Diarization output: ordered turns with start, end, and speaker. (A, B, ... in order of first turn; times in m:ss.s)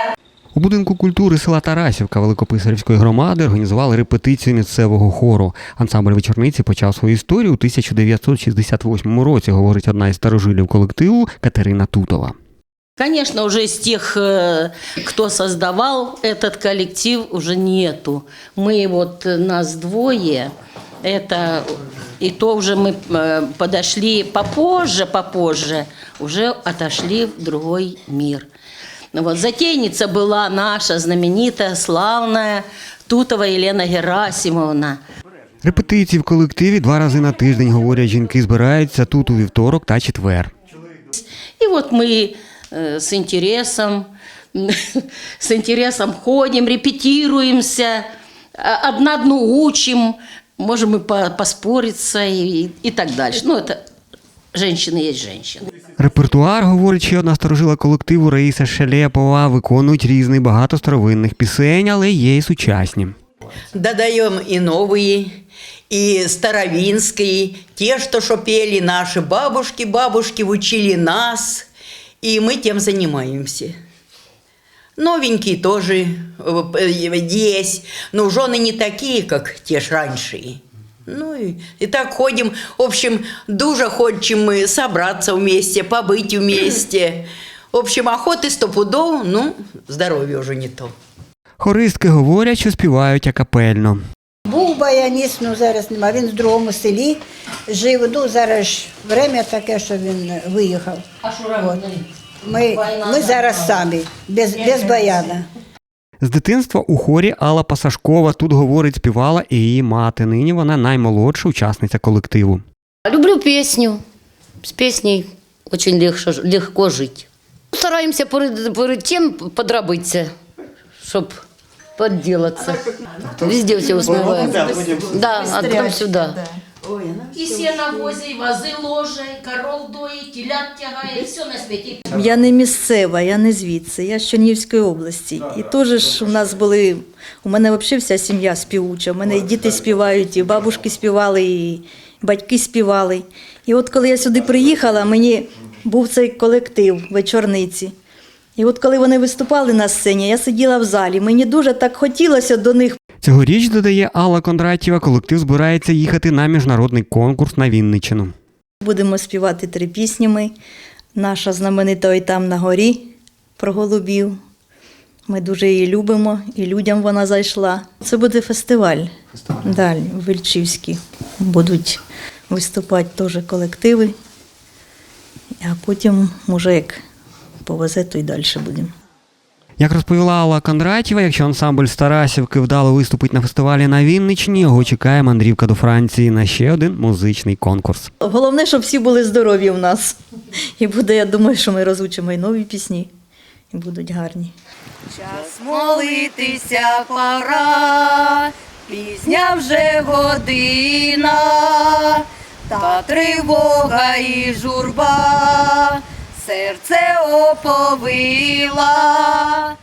0:00.5-0:12.4 A
0:13.0-0:28.5 B
0:29.1-0:35.0 B
0:35.6-0:40.5 A
0:41.1-0:48.0 B
0:48.6-0:53.8 B
0:54.5-0:55.7 B
0:56.0-1:03.1 A
1:03.7-1:05.4 C
1:05.9-1:11.7 C
1:12.2-1:13.7 C
1:15.0-1:30.9 C
1:31.6-1:34.0 A
1:34.5-1:41.0 D
1:41.2-1:42.1 B
1:42.4-1:45.5 D
1:42.7-1:43.8 B
1:46.2-1:52.6 A
1:53.1-1:54.0 E
1:54.6-2:00.3 E
2:01.0-2:01.4 E
2:02.0-2:02.8 E
2:02.6-2:05.3 C
2:03.4-2:06.4 E
2:05.7-2:06.4 F
2:06.8-2:08.1 C
2:07.3-2:12.1 B
2:12.1-2:27.9 F
2:28.6-2:33.0 F
2:33.2-2:38.3 A
2:38.8-2:40.5 F
2:41.2-2:44.4 F
2:45.3-2:49.1 F
2:49.6-2:54.1 F
2:55.6-2:57.0 F
2:57.6-2:58.9 F
2:59.8-3:08.1 A
3:08.2-3:10.2 F
3:10.8-3:13.1 F
3:13.7-3:14.5 F
3:15.6-3:22.1 G
3:22.7-3:29.3 G